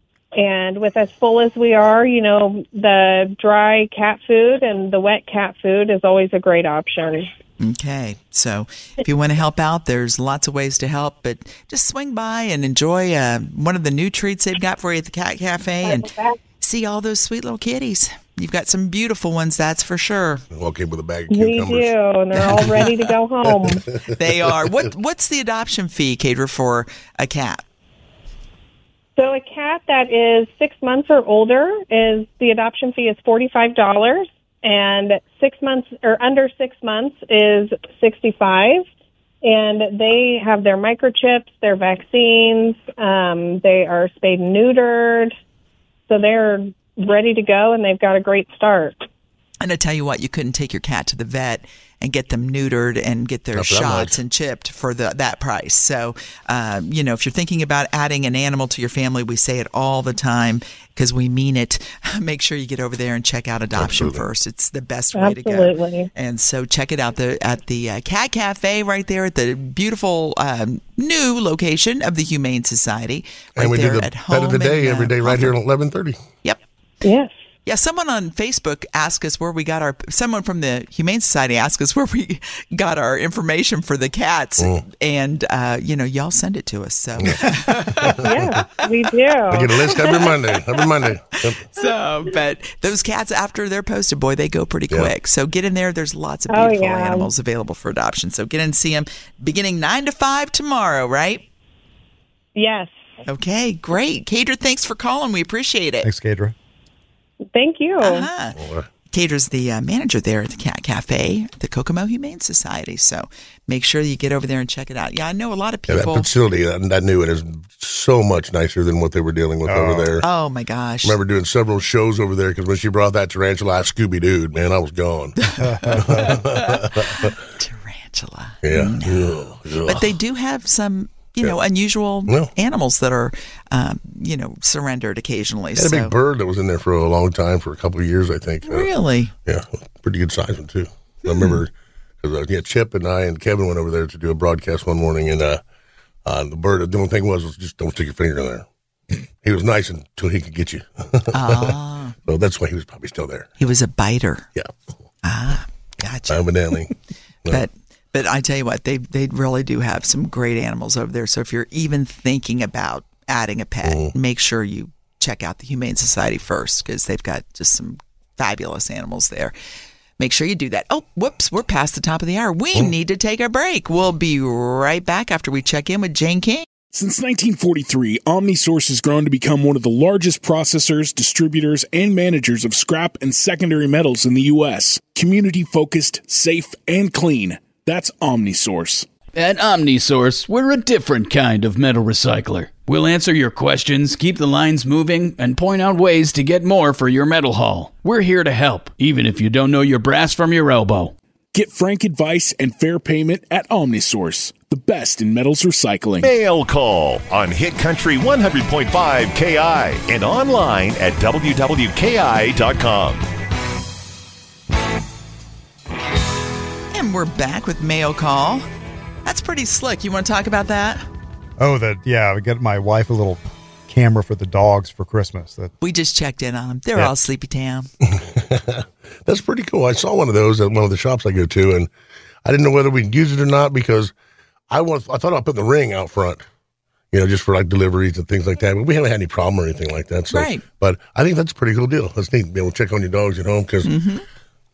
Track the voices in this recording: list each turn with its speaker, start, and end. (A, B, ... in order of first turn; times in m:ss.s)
0:00.4-0:07.3 A
0:07.6-0:20.4 B
0:15.8-0:16.4 A
0:20.5-0:21.9 C
0:21.3-0:23.9 A
0:22.4-0:22.9 B
0:23.6-0:24.6 C
0:24.1-0:27.6 B
0:29.2-0:38.8 A
0:39.4-0:45.3 A
0:46.1-0:49.0 A
0:49.6-1:15.6 B
0:53.5-0:54.2 C
1:03.8-1:04.3 C
1:05.2-1:06.1 A
1:13.6-1:16.2 C
1:17.0-1:17.3 A
1:17.6-1:28.9 B
1:27.2-1:27.5 C
1:28.2-1:30.3 A
1:29.5-1:31.6 C
1:29.9-1:30.3 B
1:31.7-1:41.4 B
1:36.5-1:37.3 A
1:42.6-1:42.9 A
1:43.3-1:46.1 B
1:46.0-1:46.5 D
1:47.5-1:48.3 A
1:48.0-1:48.6 B
1:48.6-1:48.9 C
1:49.1-1:56.3 B
1:55.9-2:00.2 C
1:59.7-2:00.1 D
2:00.2-2:01.2 B
2:01.0-2:05.4 C
2:05.4-2:16.1 B
2:05.6-2:06.4 D
2:06.0-2:07.4 C
2:08.6-2:10.1 C
2:15.8-2:18.9 C
2:18.6-2:19.3 B
2:19.4-2:25.6 C
2:21.3-2:21.6 B
2:26.2-2:28.7 C
2:29.4-2:33.6 C
2:31.3-2:32.2 B
2:33.6-2:34.5 B
2:35.2-2:36.5 B
2:36.3-2:36.9 C
2:37.5-2:49.6 B
2:43.8-2:44.1 C
2:50.2-2:56.7 B
2:56.9-3:09.1 E
3:09.3-3:21.1 F
3:21.5-3:26.3 E
3:26.2-3:33.2 G
3:36.9-3:38.7 B
3:39.2-3:41.0 B
3:41.6-3:45.7 D
3:45.8-3:47.9 B
3:48.0-3:51.9 C
3:52.4-3:54.1 C
3:54.7-3:56.4 C
3:57.1-4:03.9 C
4:00.3-4:00.6 B
4:03.8-4:04.2 B